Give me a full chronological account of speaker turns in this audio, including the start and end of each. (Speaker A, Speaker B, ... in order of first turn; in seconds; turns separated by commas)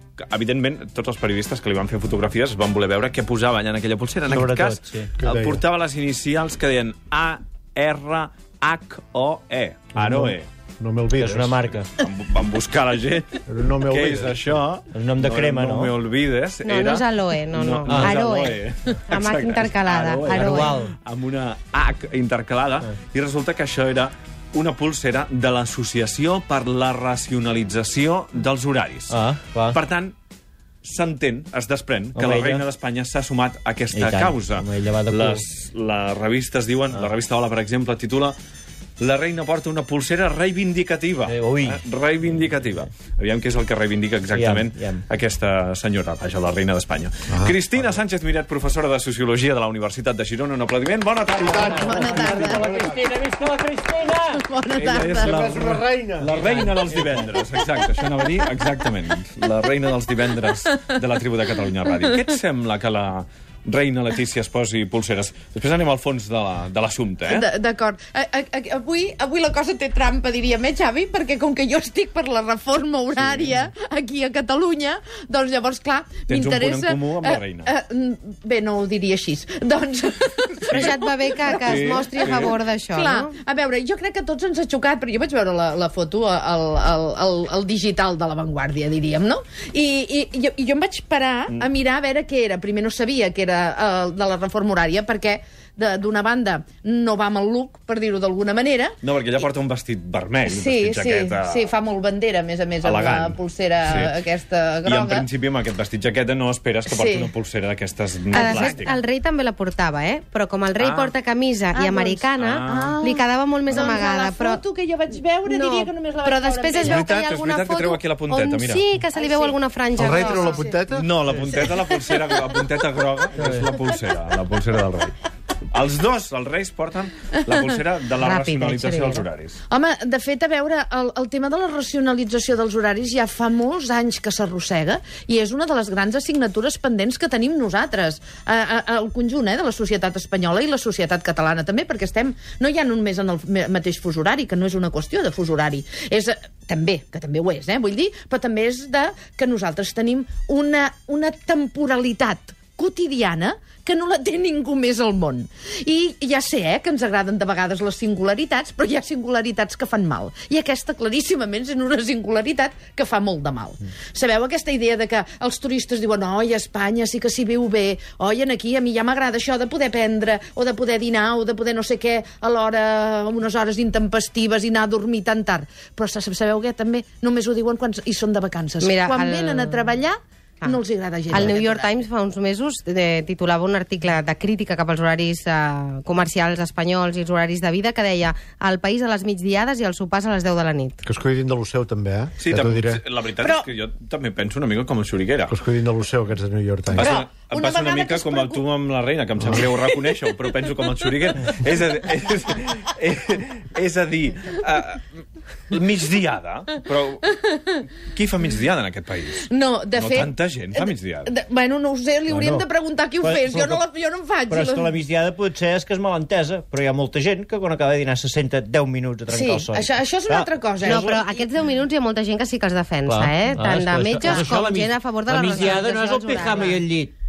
Speaker A: 0.2-10.5, Speaker B: 4.3-5.1, Speaker C: 5.2-5.6, Speaker C: 9.9-11.7, Speaker B: 11.2-11.9, Speaker A: 11.7-30.1, Speaker C: 13.5-14.6, Speaker B: 14.9-15.9, Speaker D: 16.6-20.8, Speaker B: 20.3-20.9, Speaker B: 29.1-29.8, Speaker A: 30.8-38.4, Speaker B: 32.1-32.6, Speaker B: 33.9-35.4, Speaker A: 39.0-52.0, Speaker B: 41.3-41.8, Speaker B: 44.3-45.0, Speaker C: 47.3-47.7, Speaker C: 51.4-53.1, Speaker E: 51.6-52.9, Speaker B: 52.0-54.4, Speaker E: 54.1-55.4, Speaker A: 54.7-67.5, Speaker C: 55.0-56.4, Speaker B: 56.3-57.3, Speaker E: 67.3-99.0, Speaker A: 76.3-77.7, Speaker D: 80.7-83.3, Speaker A: 81.6-82.5, Speaker A: 99.0-101.7, Speaker E: 100.5-105.3, Speaker A: 102.8-104.2, Speaker A: 104.8-109.0, Speaker E: 106.9-107.3, Speaker D: 108.3-114.6, Speaker E: 108.4-108.9, Speaker A: 110.8-111.1, Speaker E: 111.7-117.1, Speaker A: 112.4-113.0, Speaker A: 113.7-114.0, Speaker D: 115.5-120.7, Speaker A: 116.8-118.8, Speaker E: 119.1-119.6, Speaker C: 120.0-121.5, Speaker E: 120.1-120.8, Speaker A: 120.9-125.1, Speaker E: 121.5-121.8, Speaker A: 125.7-129.6, Speaker E: 128.2-182.0, Speaker D: 178.8-179.9, Speaker D: 181.3-191.1, Speaker C: 191.0-193.0, Speaker A: 192.4-195.6, Speaker E: 193.4-193.7, Speaker C: 195.5-197.1, Speaker A: 196.9-211.3, Speaker E: 197.0-198.7, Speaker C: 199.4-199.7, Speaker E: 199.7-200.1, Speaker E: 207.5-207.7, Speaker E: 209.5-214.9, Speaker B: 212.3-212.6, Speaker B: 213.2-213.8, Speaker B: 214.5-221.1, Speaker E: 219.3-221.5, Speaker D: 220.8-226.8, Speaker B: 223.1-227.1, Speaker E: 224.2-224.5, Speaker E: 226.3-226.8